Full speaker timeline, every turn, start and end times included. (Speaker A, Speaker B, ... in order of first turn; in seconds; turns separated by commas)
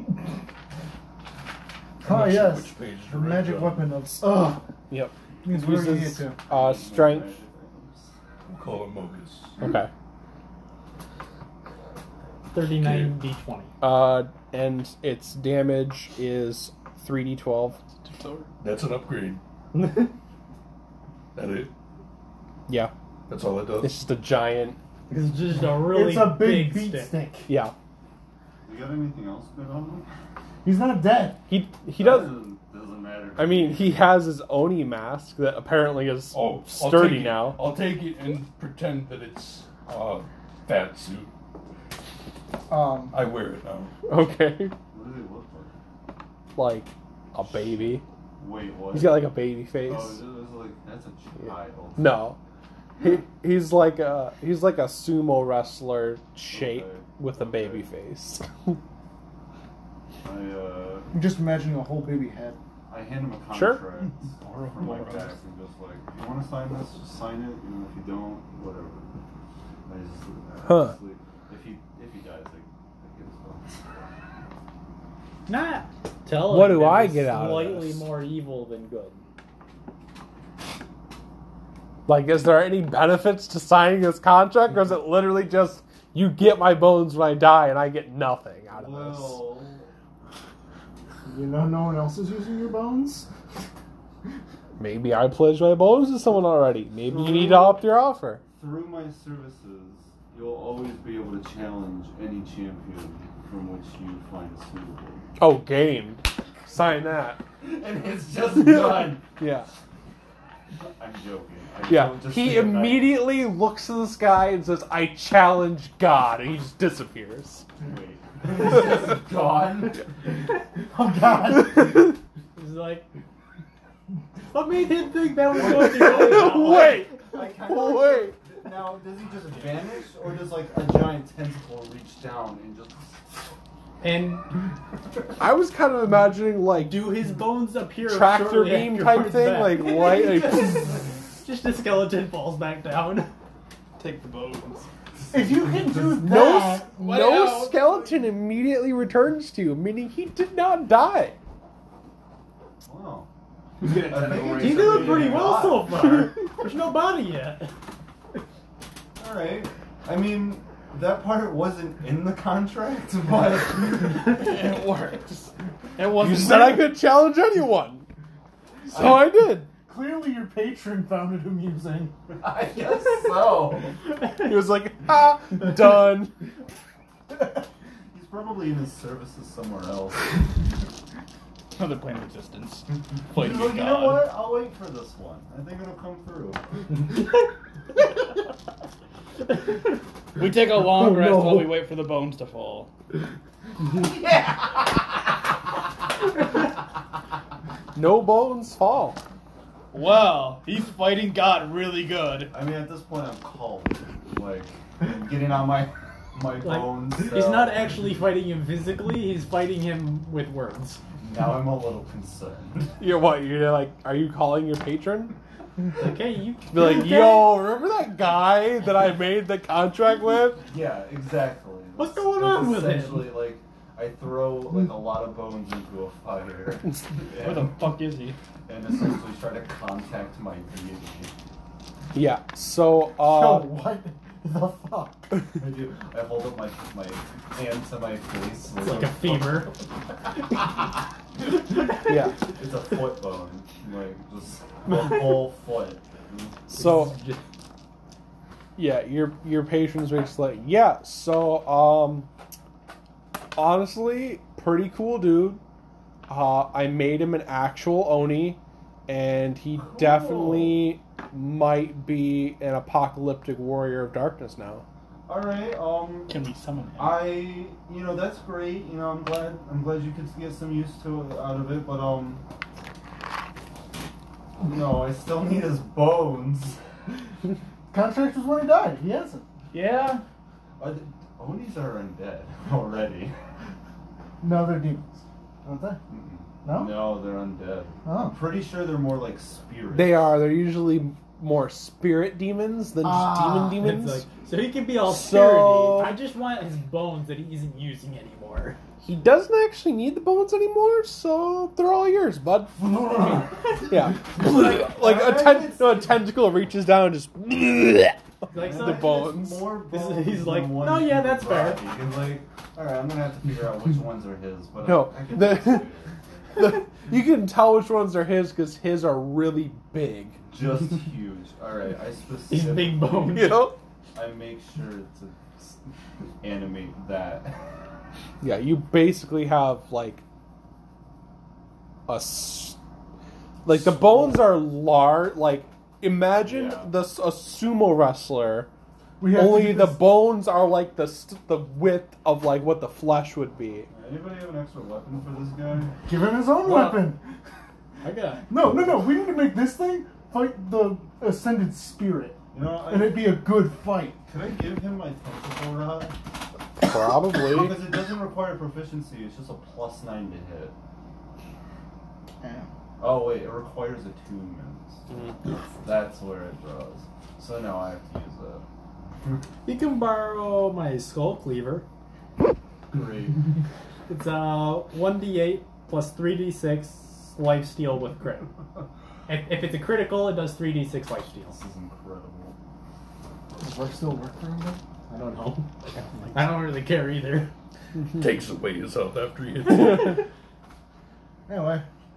Speaker A: 2.0-4.6, Speaker B: 2.0-4.0, Speaker C: 4.9-7.4, Speaker A: 5.4-6.4, Speaker D: 6.4-8.1, Speaker B: 8.5-9.6, Speaker C: 9.6-9.9, Speaker E: 12.5-13.7, Speaker B: 12.7-13.1, Speaker C: 13.8-17.8, Speaker F: 18.0-18.5, Speaker B: 18.6-19.4, Speaker E: 19.7-20.1, Speaker B: 21.3-21.7, Speaker B: 23.3-24.0, Speaker C: 23.8-24.8, Speaker E: 25.1-27.1, Speaker A: 25.6-27.5, Speaker C: 27.5-27.7, Speaker D: 28.6-30.1, Speaker A: 30.6-31.4, Speaker C: 31.5-32.4, Speaker D: 32.0-34.0, Speaker C: 33.4-37.6, Speaker B: 36.3-41.3, Speaker A: 42.7-43.2, Speaker B: 43.1-43.9, Speaker C: 44.1-44.7, Speaker D: 44.9-45.7, Speaker C: 46.5-48.0, Speaker D: 47.4-52.2, Speaker C: 48.9-50.2, Speaker C: 52.0-52.4, Speaker C: 53.0-58.8, Speaker D: 56.5-57.9, Speaker D: 60.2-61.2, Speaker A: 61.1-62.6, Speaker D: 62.9-69.1, Speaker C: 63.5-63.8, Speaker F: 64.4-65.3, Speaker D: 69.8-73.8, Speaker C: 70.6-71.0, Speaker E: 75.5-79.2, Speaker C: 76.5-78.1, Speaker C: 82.1-89.4, Speaker D: 88.7-89.9, Speaker A: 91.2-93.3, Speaker C: 94.8-98.4, Speaker D: 97.0-97.9, Speaker D: 98.5-105.3, Speaker C: 105.4-107.4, Speaker D: 107.6-109.3, Speaker C: 108.5-109.7, Speaker D: 111.0-113.3, Speaker C: 111.9-117.7, Speaker D: 117.8-120.4, Speaker A: 120.9-122.1, Speaker E: 122.5-123.0, Speaker E: 124.5-127.0, Speaker D: 125.6-133.5, Speaker C: 125.6-128.4, Speaker E: 134.0-134.5, Speaker C: 135.4-137.3, Speaker E: 136.8-143.3, Speaker C: 138.0-140.9, Speaker F: 144.0-144.9, Speaker A: 145.3-147.0, Speaker D: 145.3-146.3, Speaker C: 146.1-151.4, Speaker F: 146.9-148.3, Speaker D: 152.8-153.3, Speaker F: 153.8-155.5, Speaker D: 153.8-155.9, Speaker E: 154.5-157.7, Speaker D: 159.2-164.3, Speaker F: 164.2-167.0, Speaker C: 166.2-168.1, Speaker C: 168.9-169.7, Speaker D: 168.9-169.2, Speaker A: 169.7-172.1, Speaker D: 172.3-174.0, Speaker C: 174.4-176.4, Speaker D: 178.1-180.5, Speaker F: 181.7-184.3, Speaker D: 183.3-186.8, Speaker F: 190.3-192.9, Speaker C: 191.0-191.7, Speaker D: 193.9-195.0, Speaker C: 197.9-199.2, Speaker F: 199.9-202.5, Speaker D: 202.5-208.0, Speaker E: 206.6-211.0, Speaker D: 211.2-212.9, Speaker C: 213.0-215.3, Speaker E: 215.9-217.6, Speaker C: 216.7-220.6, Speaker D: 220.6-227.8, Speaker E: 222.0-223.4, Speaker F: 227.3-228.4, Speaker D: 228.7-231.3, Speaker C: 232.1-233.8, Speaker A: 233.2-235.4, Speaker D: 235.5-239.8, Speaker E: 238.8-239.7, Speaker C: 242.0-242.4, Speaker D: 242.4-246.7, Speaker C: 246.7-247.2, Speaker E: 246.7-247.4, Speaker C: 248.8-252.3, Speaker C: 253.6-255.6, Speaker C: 256.3-264.8, Speaker D: 259.8-260.9, Speaker D: 265.3-266.4, Speaker F: 266.3-267.3, Speaker D: 267.0-272.4, Speaker D: 274.6-276.8, Speaker A: 277.9-279.4, Speaker F: 279.7-280.2, Speaker D: 280.8-283.3, Speaker A: 284.4-286.0, Speaker D: 286.1-290.4, Speaker A: 286.6-287.1, Speaker A: 288.0-288.4, Speaker C: 289.9-294.3, Speaker A: 293.0-293.8, Speaker E: 293.7-298.8, Speaker C: 295.0-296.2, Speaker C: 299.0-302.8, Speaker D: 303.0-303.4, Speaker C: 303.9-309.7, Speaker D: 304.4-306.2, Speaker E: 308.5-311.8, Speaker D: 308.5-316.7, Speaker C: 314.8-315.9, Speaker C: 316.6-320.4, Speaker D: 320.5-325.8, Speaker E: 322.5-323.7, Speaker C: 323.3-323.8, Speaker D: 326.4-327.6, Speaker C: 328.4-330.2, Speaker C: 332.1-332.8, Speaker C: 333.6-338.7, Speaker D: 333.8-334.3, Speaker D: 336.3-336.9, Speaker A: 339.2-340.1, Speaker C: 339.3-343.9, Speaker D: 343.9-346.0, Speaker A: 346.0-347.2, Speaker E: 346.6-347.1, Speaker E: 348.0-348.5, Speaker A: 348.5-354.2, Speaker D: 352.5-353.4, Speaker D: 354.3-356.1, Speaker C: 356.8-357.8, Speaker D: 357.4-360.7, Speaker A: 362.4-362.7, Speaker D: 363.0-365.0, Speaker D: 365.8-368.6, Speaker E: 369.6-371.9, Speaker D: 372.9-373.4, Speaker E: 374.1-378.5, Speaker E: 379.3-381.6, Speaker D: 381.5-382.6, Speaker A: 383.6-384.8, Speaker E: 385.1-387.5, Speaker B: 388.1-390.2, Speaker E: 389.8-390.1, Speaker A: 391.5-391.8